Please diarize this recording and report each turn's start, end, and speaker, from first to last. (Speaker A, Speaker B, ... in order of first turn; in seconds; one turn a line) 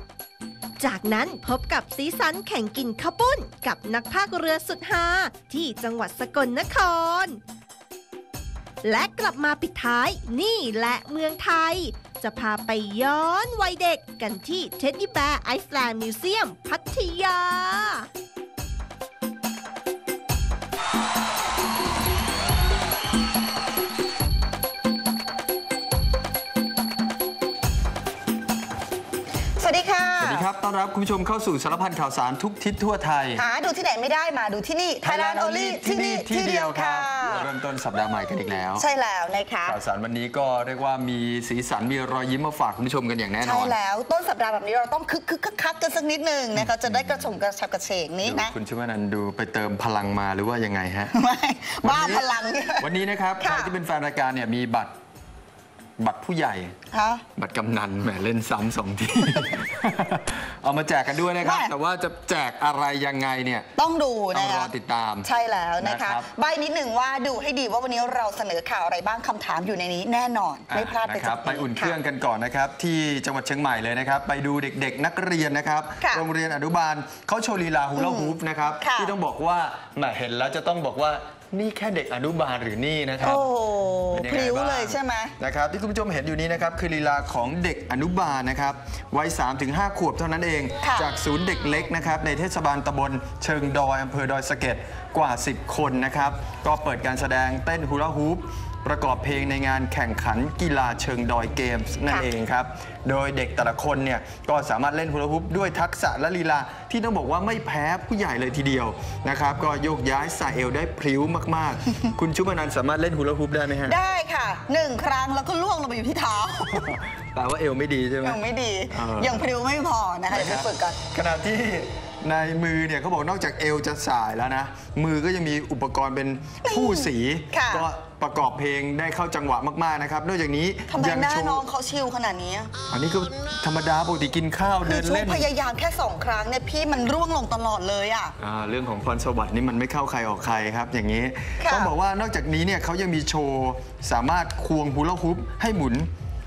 Speaker A: 0.8-7.4
Speaker A: 8.8-18.1
Speaker B: 29.6-30.5
Speaker C: 30.2-33.4
Speaker B: 33.4-37.5
Speaker C: 35.0-38.8
Speaker B: 38.5-39.8
Speaker C: 39.6-43.7
Speaker B: 43.4-48.5
Speaker C: 46.5-47.3
Speaker C: 48.2-51.1
Speaker B: 51.1-52.9
Speaker C: 51.8-54.9
Speaker B: 53.4-53.7
Speaker C: 56.0-56.7
Speaker B: 56.9-57.2
Speaker C: 57.4-63.7
Speaker B: 61.4-61.7
Speaker B: 63.8-64.7
Speaker C: 64.3-66.3
Speaker B: 65.2-72.0
Speaker C: 70.7-83.4
Speaker B: 76.0-76.2
Speaker B: 78.0-79.1
Speaker B: 83.2-85.3
Speaker C: 84.1-114.0
Speaker B: 90.8-91.1
Speaker B: 113.8-116.9
Speaker C: 116.7-118.4
Speaker B: 118.2-121.0
Speaker C: 118.9-119.4
Speaker C: 120.3-131.6
Speaker B: 126.6-127.9
Speaker B: 130.9-132.7
Speaker C: 132.9-135.5
Speaker B: 134.8-138.3
Speaker C: 138.4-146.1
Speaker B: 141.6-141.9